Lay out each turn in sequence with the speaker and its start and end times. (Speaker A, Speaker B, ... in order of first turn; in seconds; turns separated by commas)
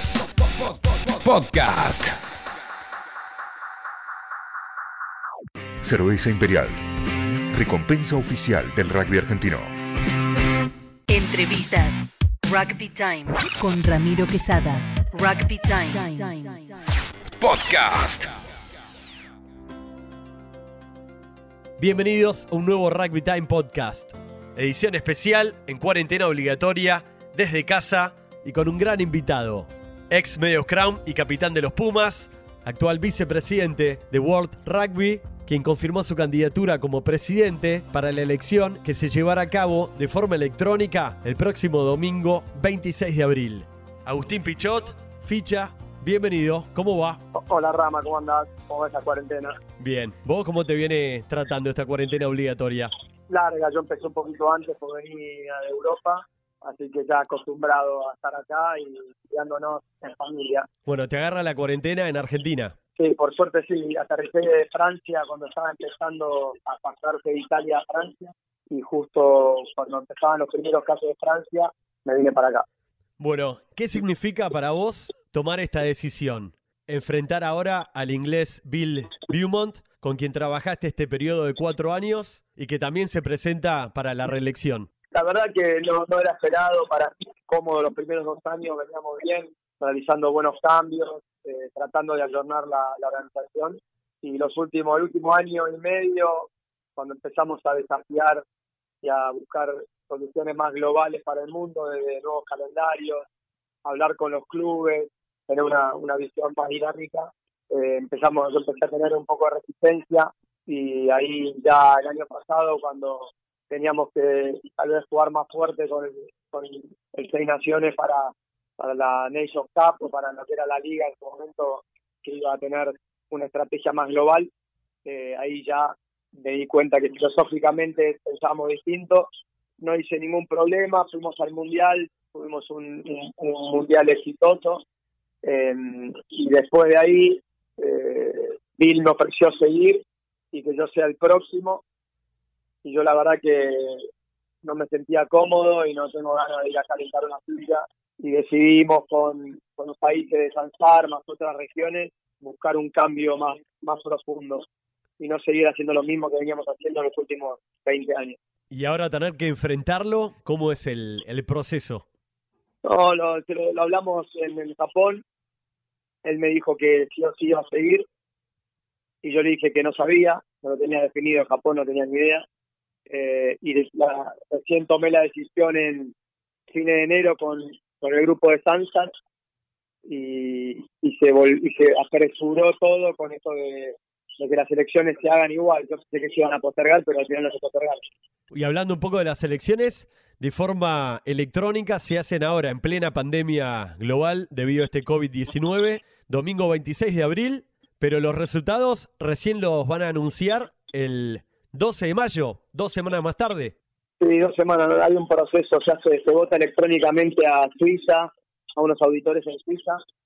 Speaker A: 0.2-2.2, Speaker B: 5.8-6.8, Speaker B: 7.5-9.7, Speaker C: 11.1-16.9, Speaker A: 17.4-18.4, Speaker D: 21.8-47.2, Speaker E: 47.3-49.6, Speaker D: 49.8-52.9, Speaker E: 53.3-60.7, Speaker D: 60.9-62.7, Speaker E: 63.0-72.7, Speaker D: 73.2-84.9, Speaker E: 85.1-98.4, Speaker E: 99.0-103.3, Speaker E: 103.8-124.5, Speaker E: 125.0-129.3, Speaker E: 129.8-134.8, Speaker E: 135.4-141.8, Speaker E: 142.8-144.1, Speaker E: 144.6-154.7, Speaker E: 155.2-158.4, Speaker D: 158.7-162.0, Speaker E: 162.8-165.2, Speaker E: 166.2-168.1, Speaker E: 169.2-172.4, Speaker E: 173.1-176.1, Speaker E: 176.7-179.1, Speaker E: 180.1-188.0, Speaker D: 188.5-203.8, Speaker E: 204.2-210.0